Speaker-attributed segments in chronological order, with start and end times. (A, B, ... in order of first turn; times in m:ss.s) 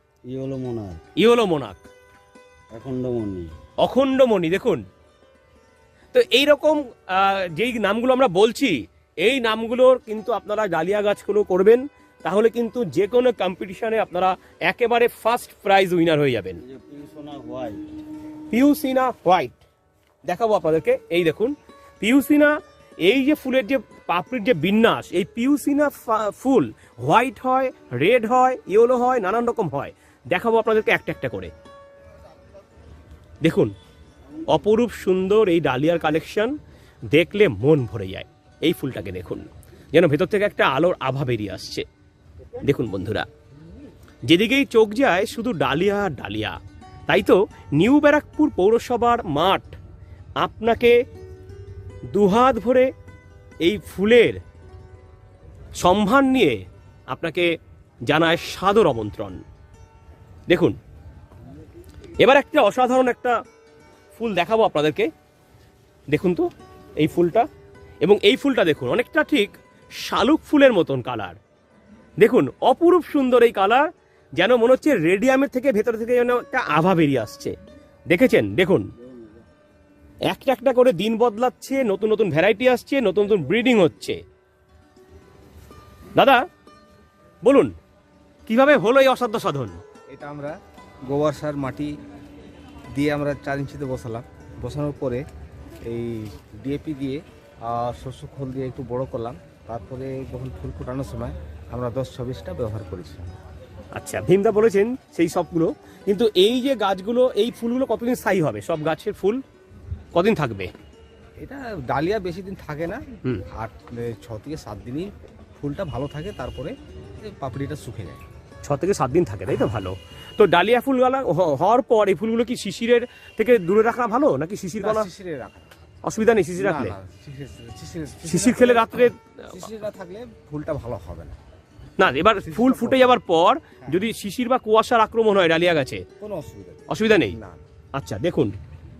0:00.3-0:01.0 A
0:01.2-0:01.9 B
0:02.7-0:03.5 A
0:03.8-0:04.8 B
0:06.1-0:16.6 B
0:16.6-0:17.8 A
0:18.5-0:19.6 B
0:20.2-0:31.5 B
0:33.4-0:33.7 B
0:34.5-0:36.5 B
0:37.1-0:41.8 B
0:42.6-0:43.3 B
0:44.3-0:46.6 B
0:47.1-0:49.7 B
0:50.4-0:51.0 B
0:52.1-0:52.9 B
0:53.6-0:54.4 B
0:55.8-0:57.5 B
0:58.1-0:59.4 B
1:00.5-1:00.8 B
1:02.2-1:03.4 B
1:04.1-1:05.1 B
1:06.1-1:06.4 B
1:07.0-1:07.5 B
1:08.0-1:11.4 B
1:12.2-1:13.8 B
1:14.4-1:17.5 B
1:18.1-1:18.9 B
1:19.0-1:19.4 A
1:20.3-1:24.2 B
1:26.1-1:26.4 B
1:27.4-1:27.7 B
1:28.5-1:29.8 B
1:30.1-1:30.5 C
1:31.1-1:31.9 C
1:32.9-1:35.2 C
1:35.8-1:43.4 C
1:43.9-1:49.4 B
1:50.1-1:50.7 B
1:51.4-1:58.2 C
1:58.6-2:05.1 B
2:04.8-2:05.7 C
2:06.0-2:07.0 B
2:06.6-2:11.4 C
2:08.2-2:09.2 B
2:12.0-2:16.0 B
2:12.4-2:13.1 C
2:16.2-2:17.6 C
2:16.9-2:17.4 B
2:17.9-2:18.5 B